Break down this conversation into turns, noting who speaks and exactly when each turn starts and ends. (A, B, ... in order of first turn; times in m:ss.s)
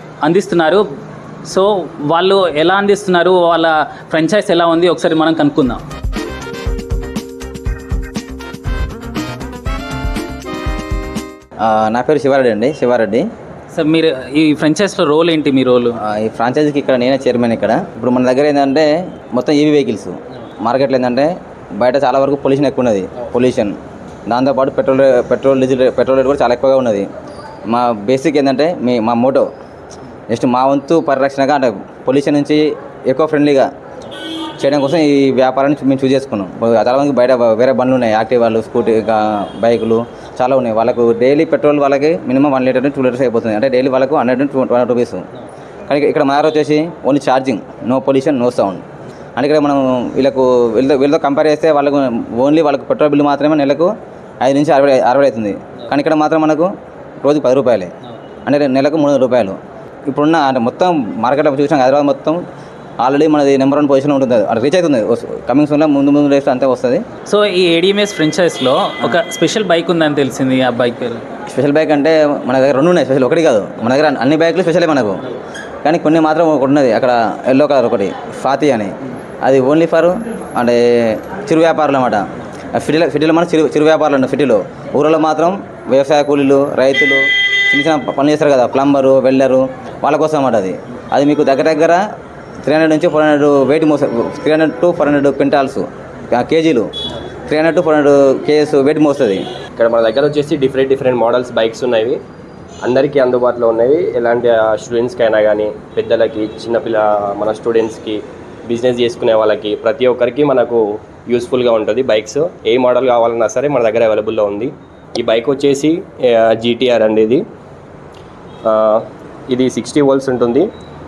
0:00.2-0:00.8 A
0:01.4-0:05.8 A
0:11.6-0:13.2 B
0:13.7-0:16.0 A
0:16.0-0:23.8 B
0:24.3-0:27.1 B
0:27.7-0:29.5 B
0:30.3-0:33.7 B
0:34.6-0:45.2 B
0:45.9-0:48.8 B
0:49.4-0:56.7 B
0:57.2-0:57.9 B
0:58.4-1:02.4 B
1:03.0-1:07.0 B
1:07.2-1:11.2 A
1:11.5-1:15.2 B
1:15.8-1:32.0 B
1:32.6-1:36.9 B
1:37.5-1:39.4 B
1:39.8-1:42.2 C
1:42.8-1:57.4 C
1:58.6-2:00.7 C